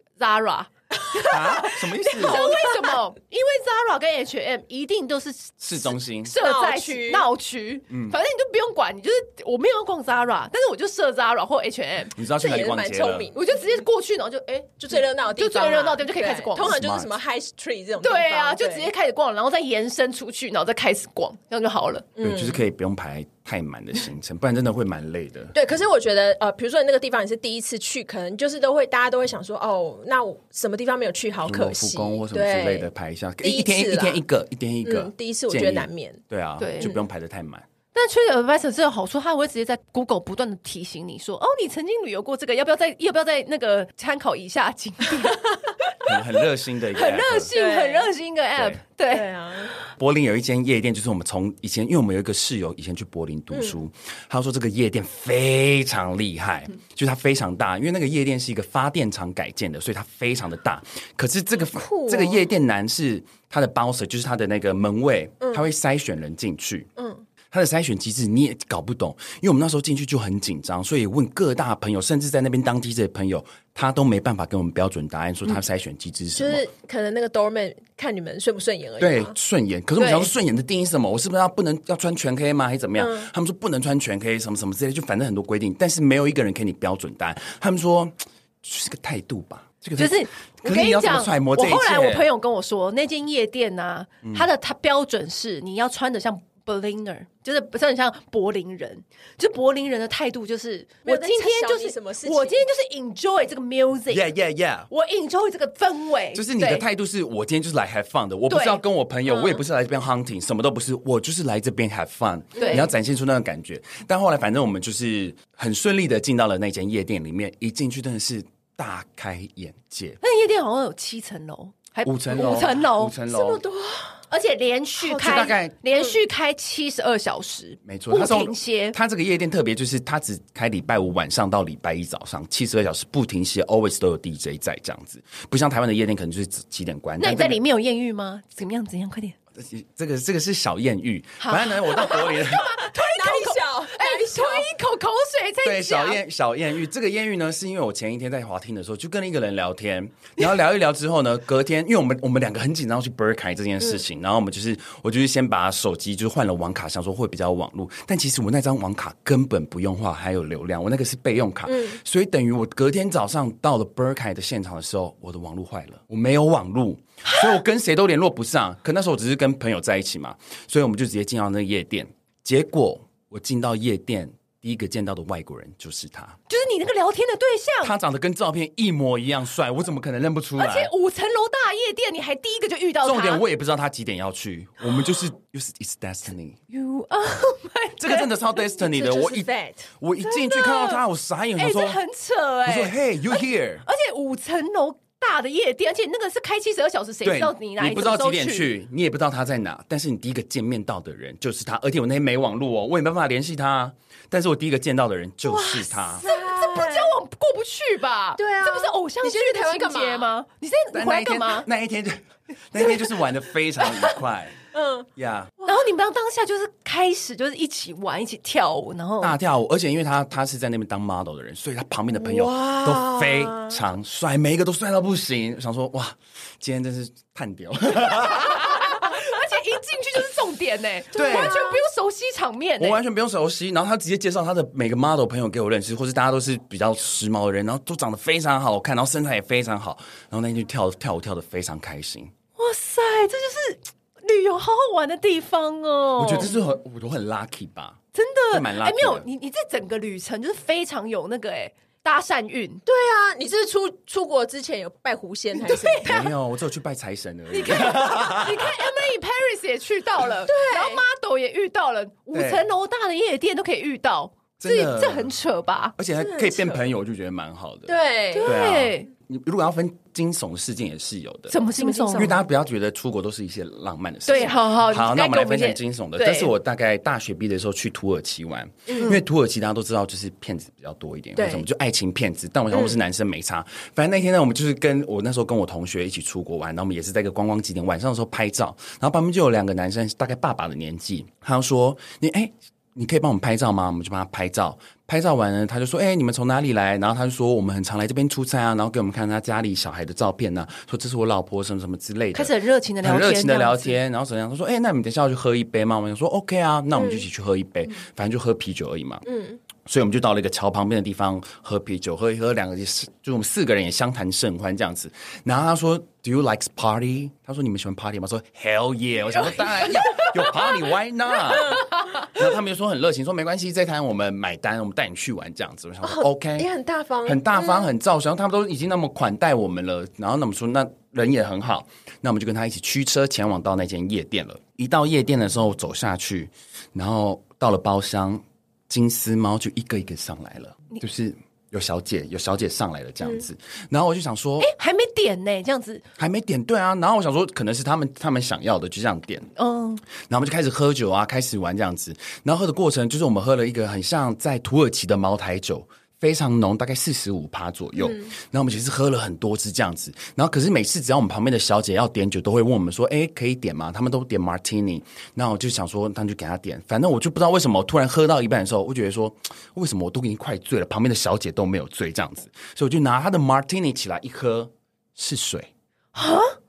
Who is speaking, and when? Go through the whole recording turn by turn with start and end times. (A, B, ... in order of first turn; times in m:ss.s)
0:00.2-0:12.1 A
0:01.0-0:03.0 B
0:01.2-0:02.5 C
0:05.6-0:06.3 C
0:06.4-0:07.2 B
0:07.9-0:08.2 C
0:12.1-0:13.3 C
0:12.3-0:13.5 B
0:13.3-0:16.8 A
0:14.8-0:18.9 B
0:16.6-0:17.1 C
0:18.0-0:22.1 A
0:22.2-0:22.6 B
0:22.2-0:25.5 C
0:25.5-0:32.9 B
0:31.4-0:37.7 C
0:33.4-0:34.2 B
0:34.8-0:36.2 B
0:36.6-0:37.0 A
0:37.9-0:46.0 A
0:46.0-0:47.5 C
0:46.9-0:49.3 A
0:47.5-0:48.1 B
0:48.6-0:48.8 C
0:49.1-0:49.7 B
0:50.0-1:06.9 C
0:53.5-0:53.8 B
1:01.7-1:02.4 B
1:05.4-1:05.7 B
1:07.0-1:07.2 B
1:07.5-1:16.6 C
1:16.3-1:19.4 B
1:19.0-1:32.3 C
1:20.0-1:20.3 A
1:23.0-1:23.3 B
1:30.0-1:44.3 A
1:41.0-1:42.6 B
1:44.1-1:44.9 C
1:44.9-1:46.8 A
1:46.3-2:00.2 C
1:48.5-1:49.6 A
1:52.6-1:52.9 B
1:52.6-1:52.9 A
2:00.2-2:03.2 A
2:02.0-2:03.6 C
2:02.3-2:02.7 B
2:03.3-2:04.2 B
2:04.3-2:09.0 A
2:05.0-2:06.1 B
2:05.2-2:05.8 C
2:07.8-2:17.6 C
2:17.2-2:19.4 A
2:19.6-2:22.8 C
2:21.4-2:26.2 A
2:22.7-2:24.7 B
2:25.6-2:56.4 C
2:41.6-2:42.0 B
2:47.2-2:47.6 A
2:56.5-2:57.9 A
2:57.8-3:00.9 C
3:00.6-3:03.4 A
3:03.0-3:06.6 C
3:06.7-3:08.3 A
3:08.0-3:09.5 C
3:08.8-3:09.9 B
3:10.0-3:12.0 C
3:10.2-3:11.0 A
3:11.6-3:18.7 A
3:12.6-3:13.8 C
3:17.2-3:26.2 C
3:25.4-3:27.2 B
3:26.2-3:31.7 A
3:28.4-3:30.3 B
3:30.9-3:34.6 C
3:34.7-3:35.1 B
3:35.2-3:35.5 C
3:35.6-3:35.9 B
3:35.6-3:39.4 A
3:39.2-3:49.2 C
3:42.2-3:43.8 B
3:48.1-3:53.0 A
3:51.1-3:51.6 C
3:51.1-3:51.8 B
3:52.8-4:02.3 C
4:02.6-4:06.6 A
4:06.2-4:08.0 C
4:08.1-4:12.8 A
4:08.5-4:09.3 C
4:12.8-4:16.3 B
4:15.6-4:16.3 A
4:16.0-4:18.9 C
4:17.5-4:25.9 A
4:20.5-4:21.0 B
4:22.3-4:22.6 C
4:24.6-4:25.3 C
4:26.0-4:31.6 C
4:26.2-4:26.8 B
4:27.9-4:28.6 B
4:28.3-4:29.1 A
4:31.5-4:32.4 A
4:31.8-4:32.4 B
4:32.1-5:09.2 C
4:34.2-4:36.5 A
4:38.9-4:39.2 B
4:41.4-4:41.6 B
4:42.7-4:43.0 B
5:02.3-5:04.0 A
5:06.9-5:07.2 B
5:09.2-5:09.6 B
5:09.8-5:26.7 C
5:19.4-5:20.6 A
5:21.7-5:22.0 A
5:26.0-5:27.9 B
5:27.2-5:44.7 C
5:44.6-5:46.0 A
5:46.2-5:49.5 C
5:49.6-5:50.0 A
5:50.2-6:15.7 C
5:58.0-5:58.3 B
6:16.1-6:16.6 A